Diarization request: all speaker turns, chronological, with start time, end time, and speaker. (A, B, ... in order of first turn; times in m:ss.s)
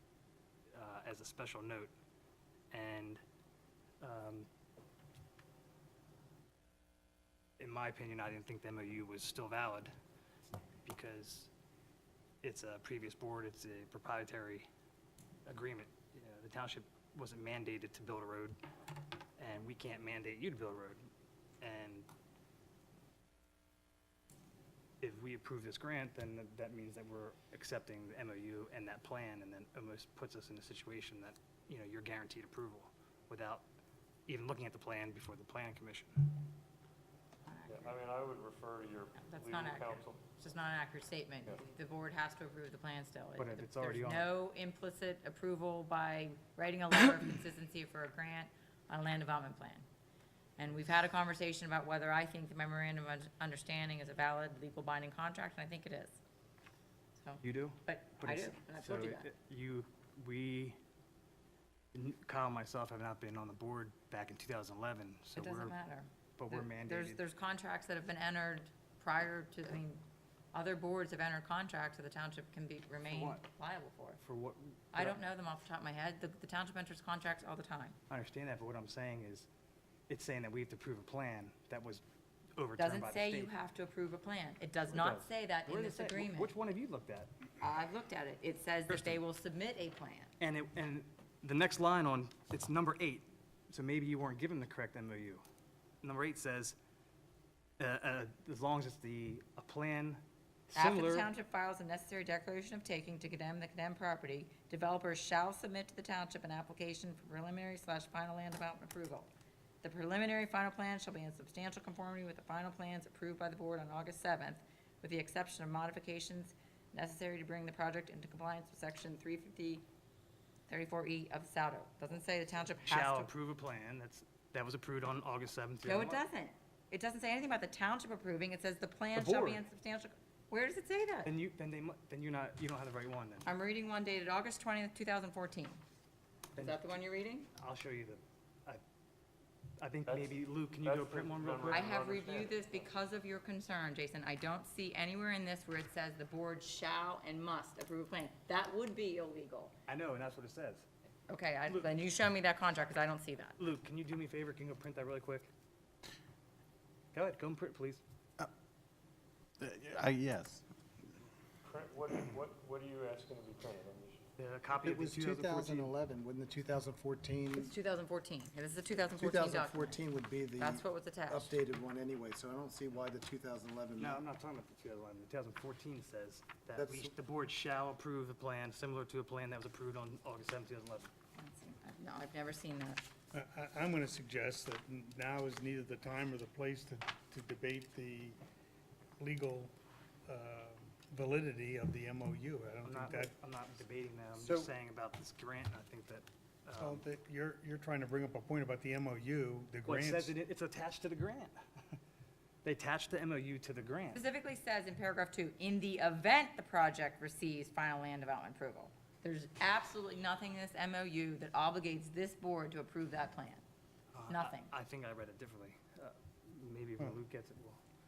0:00.7-0:01.9 A
0:02.7-0:03.2 A
0:04.0-0:04.5 A
0:07.6-0:09.9 A
0:10.8-0:11.5 A
0:12.4-0:14.7 A
0:15.4-0:18.6 A
0:19.4-0:21.0 A
0:21.6-0:22.1 A
0:25.0-0:33.6 A
0:34.3-0:36.3 A
0:37.5-0:38.0 B
0:37.7-0:40.3 C
0:39.2-0:49.8 B
0:43.4-0:44.3 A
0:50.6-0:56.2 B
0:57.2-0:59.3 B
0:57.4-1:00.8 A
1:01.9-1:05.7 A
1:05.4-1:10.0 B
1:06.4-1:07.2 A
1:10.5-1:14.2 B
1:13.1-1:13.4 A
1:14.2-1:15.2 A
1:14.9-1:18.0 B
1:18.1-1:19.5 A
1:20.1-1:22.0 A
1:22.6-1:23.5 A
1:22.8-1:26.5 B
1:24.9-1:27.3 A
1:27.6-1:30.3 B
1:28.9-1:29.2 A
1:30.4-1:35.4 A
1:36.0-1:36.8 A
1:37.8-1:41.3 A
1:40.7-1:49.3 B
1:49.8-1:59.8 B
2:00.7-2:03.3 B
2:02.8-2:06.2 A
2:05.8-2:11.3 B
2:09.1-2:09.6 A
2:11.2-2:13.5 A
2:13.4-2:15.8 B
2:16.5-2:16.8 A
2:16.6-2:17.5 B
2:17.5-2:18.8 A
2:19.8-2:22.0 A
2:20.0-2:22.8 C
2:21.7-2:29.7 B
2:29.9-2:30.9 A
2:31.3-2:33.6 B
2:33.6-2:35.5 A
2:37.1-2:38.0 A
2:39.6-2:40.6 D
2:41.6-2:44.3 C
2:44.4-2:45.9 A
2:44.8-2:47.7 D
2:47.5-2:50.0 B
2:49.2-2:54.2 D
2:50.6-2:51.5 B
2:54.0-3:01.1 A
2:56.8-2:57.1 D
3:01.4-3:03.1 B
3:03.3-3:08.4 E
3:09.2-3:09.7 E
3:10.2-3:13.3 E
3:12.8-3:17.0 A
3:14.4-3:14.7 E
3:16.8-3:20.3 E
3:19.8-3:21.6 A
3:22.6-3:24.2 A
3:24.1-3:33.6 B
3:34.1-3:37.8 A
3:34.3-3:34.7 B